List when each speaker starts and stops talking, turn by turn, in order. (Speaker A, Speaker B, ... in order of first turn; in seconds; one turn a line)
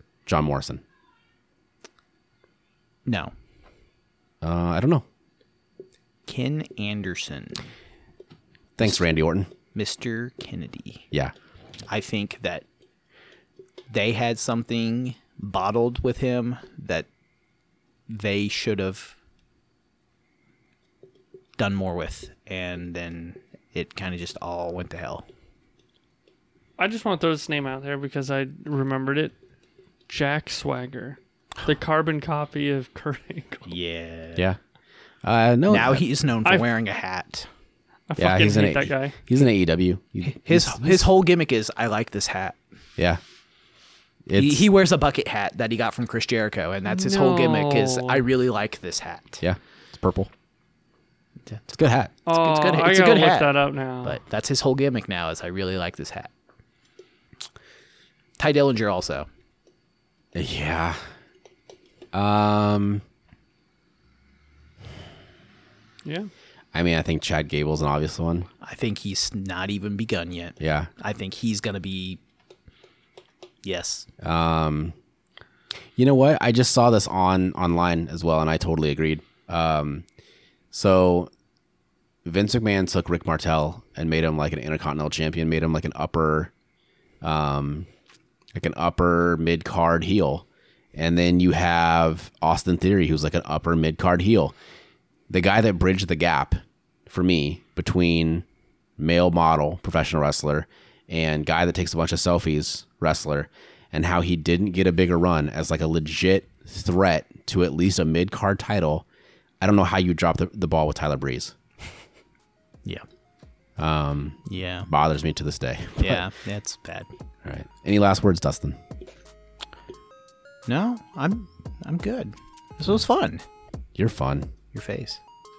Speaker A: 0.3-0.8
Speaker B: 3.1-3.3
Speaker A: 4.4-5.1
Speaker B: 6.3-7.7
Speaker A: 8.8-9.5
Speaker B: 8.8-9.1
Speaker B: 9.7-11.1
Speaker B: 11.9-12.7
Speaker B: 13.9-17.1
Speaker B: 18.1-19.2
Speaker B: 21.6-25.3
Speaker C: 26.8-29.3
Speaker C: 30.1-33.7
Speaker B: 33.7-34.4
Speaker A: 35.2-36.0
Speaker B: 35.7-37.5
Speaker C: 38.1-39.2
Speaker A: 38.2-41.1
Speaker B: 40.3-42.6
Speaker A: 44.3-44.6
Speaker B: 44.4-49.4
Speaker C: 46.9-48.2
Speaker A: 49.4-50.3
Speaker A: 51.7-52.1
Speaker C: 52.3-54.2
Speaker B: 52.3-56.3
Speaker B: 58.4-59.3
Speaker A: 60.4-61.0
Speaker A: 62.1-63.0
Speaker C: 66.0-66.3
Speaker A: 66.7-68.5
Speaker B: 68.6-72.2
Speaker A: 70.6-70.9
Speaker B: 73.6-74.1
Speaker A: 74.2-75.0
Speaker A: 76.0-80.1
Speaker A: 80.7-81.3
Speaker A: 82.2-86.5
Speaker A: 87.2-87.9
Speaker A: 88.5-94.5
Speaker A: 95.3-98.5
Speaker A: 99.0-109.1
Speaker A: 109.6-111.6
Speaker A: 113.8-116.3
Speaker B: 114.5-114.9
Speaker B: 116.0-117.1
Speaker A: 117.4-118.8
Speaker B: 120.7-123.4
Speaker A: 124.0-124.5
Speaker B: 124.7-125.2